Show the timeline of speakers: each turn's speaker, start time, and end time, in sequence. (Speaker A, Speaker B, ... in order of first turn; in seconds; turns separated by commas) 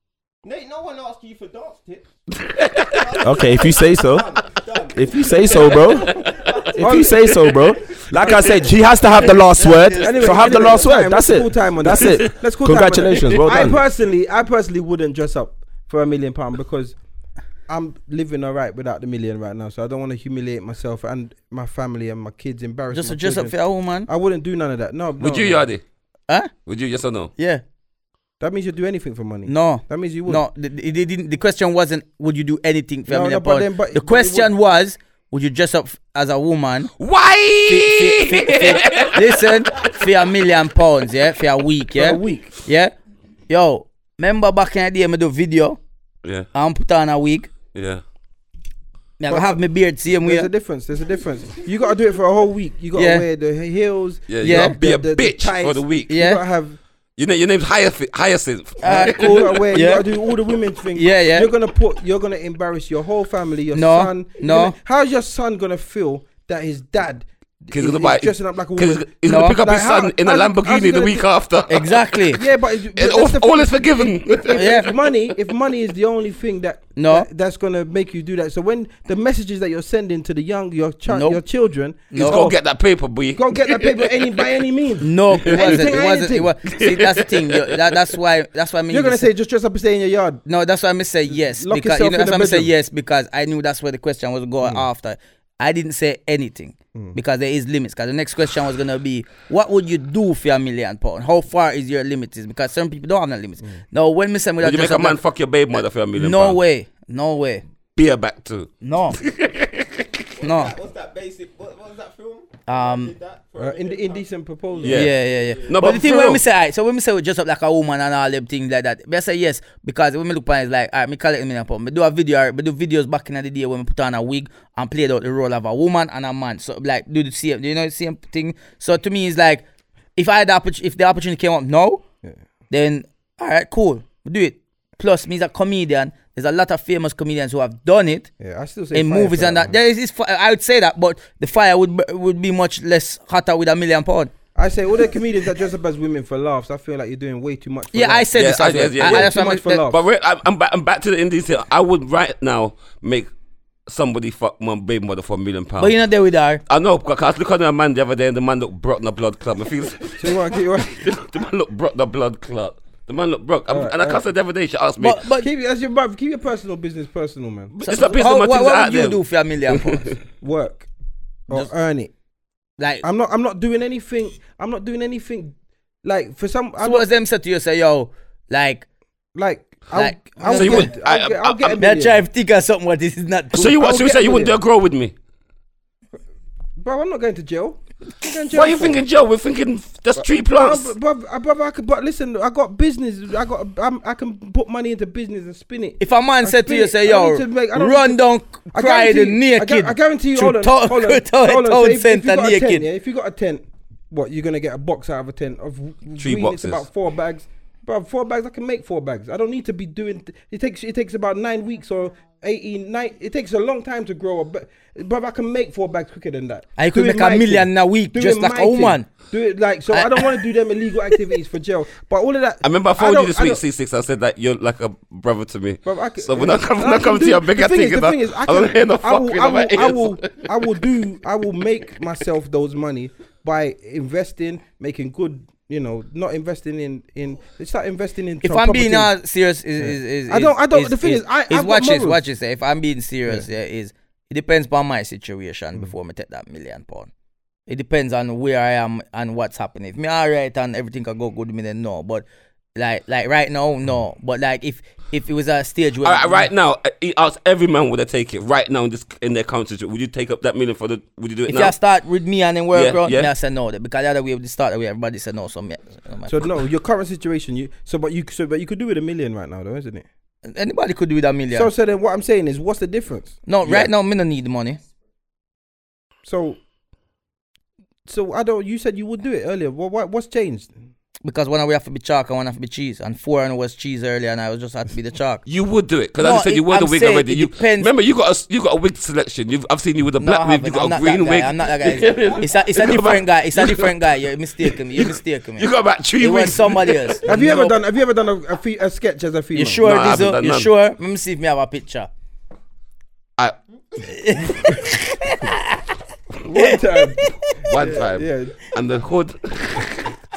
Speaker A: 0.4-2.1, Speaker B: 2.3-3.1, Speaker A: 2.8-9.2, Speaker C: 3.2-4.4, Speaker C: 4.9-13.8, Speaker B: 5.5-6.5, Speaker D: 6.8-7.4, Speaker D: 8.1-8.5, Speaker B: 8.2-8.5, Speaker E: 9.6-10.1, Speaker D: 10.0-17.0, Speaker B: 12.0-12.3, Speaker B: 13.2-13.5, Speaker D: 17.7-25.7, Speaker E: 22.9-24.1, Speaker B: 25.2-25.8, Speaker B: 26.7-27.3, Speaker E: 27.4-27.6, Speaker D: 28.4-30.4, Speaker E: 29.5-36.9, Speaker D: 33.1-34.5, Speaker B: 37.0-39.9, Speaker E: 37.7-42.9, Speaker D: 42.0-42.5, Speaker E: 43.5-45.8, Speaker E: 46.5-47.5, Speaker B: 47.7-48.0, Speaker E: 49.2-50.5, Speaker D: 49.3-49.6, Speaker D: 50.2-56.8, Speaker E: 52.9-53.2, Speaker B: 54.3-56.2, Speaker E: 54.4-54.8, Speaker E: 56.1-56.4, Speaker B: 57.2-59.7, Speaker E: 58.8-60.1, Speaker D: 58.8-71.2, Speaker E: 60.9-61.5, Speaker E: 63.7-64.8, Speaker B: 67.7-72.2, Speaker E: 69.3-69.6, Speaker E: 71.7-72.4, Speaker D: 72.3-82.6, Speaker B: 72.9-75.2, Speaker E: 74.5-74.9, Speaker E: 77.0-77.3, Speaker E: 81.1-81.4, Speaker E: 82.1-82.5, Speaker B: 82.2-84.4, Speaker D: 83.3-86.5, Speaker E: 85.0-89.3, Speaker B: 85.5-85.9, Speaker B: 86.7-87.9, Speaker D: 88.9-90.4, Speaker E: 90.5-105.2, Speaker D: 91.3-92.7, Speaker D: 94.6-94.9, Speaker B: 104.6-106.6, Speaker E: 106.2-107.6, Speaker B: 108.0-110.1, Speaker E: 108.8-109.2, Speaker A: 110.4-116.1, Speaker E: 110.4-110.8, Speaker E: 112.7-113.1, Speaker D: 113.6-115.1, Speaker B: 114.8-115.1, Speaker E: 114.9-129.6, Speaker B: 115.7-116.4, Speaker E: 130.2-132.0, Speaker E: 132.7-138.3, Speaker D: 138.4-139.8, Speaker E: 138.9-144.3, Speaker D: 144.6-150.0, Speaker E: 147.9-149.9, Speaker B: 148.3-153.3, Speaker B: 153.9-156.0, Speaker E: 155.8-156.6, Speaker B: 156.7-165.2, Speaker D: 160.2-161.1, Speaker D: 163.7-164.2, Speaker E: 165.0-165.5, Speaker D: 165.4-168.2, Speaker E: 167.8-170.1, Speaker B: 167.8-170.2, Speaker D: 170.4-170.9, Speaker D: 171.5-172.1, Speaker E: 172.8-173.0, Speaker D: 173.0-177.1, Speaker E: 176.8-178.9, Speaker D: 179.3-182.2, Speaker E: 179.9-180.9, Speaker B: 180.5-181.8, Speaker E: 181.8-184.2, Speaker B: 183.5-185.1, Speaker D: 183.8-184.6, Speaker D: 186.8-189.0, Speaker B: 188.4-190.9, Speaker D: 190.2-198.2, Speaker E: 196.0-202.9, Speaker D: 198.7-223.6, Speaker B: 206.2-206.8, Speaker E: 216.8-219.1, Speaker E: 219.9-220.5, Speaker B: 222.6-230.7, Speaker D: 225.8-239.1, Speaker E: 238.4-247.1, Speaker D: 239.8-242.2, Speaker E: 247.7-252.2, Speaker E: 252.8-256.5, Speaker B: 256.0-261.8, Speaker E: 261.5-266.5, Speaker B: 262.7-263.3, Speaker D: 266.3-270.1, Speaker E: 270.5-271.7, Speaker D: 271.5-273.4, Speaker E: 273.5-274.8, Speaker B: 273.6-273.9, Speaker D: 276.2-276.6, Speaker D: 278.1-280.8, Speaker E: 281.2-285.4, Speaker B: 285.5-294.1, Speaker E: 286.2-287.9, Speaker E: 290.2-297.8, Speaker A: 292.1-292.4, Speaker B: 294.6-297.2, Speaker D: 297.3-299.9, Speaker E: 299.5-302.1, Speaker B: 299.8-300.7, Speaker E: 304.0-305.8, Speaker D: 306.4-308.7, Speaker E: 306.5-307.7, Speaker B: 307.6-310.1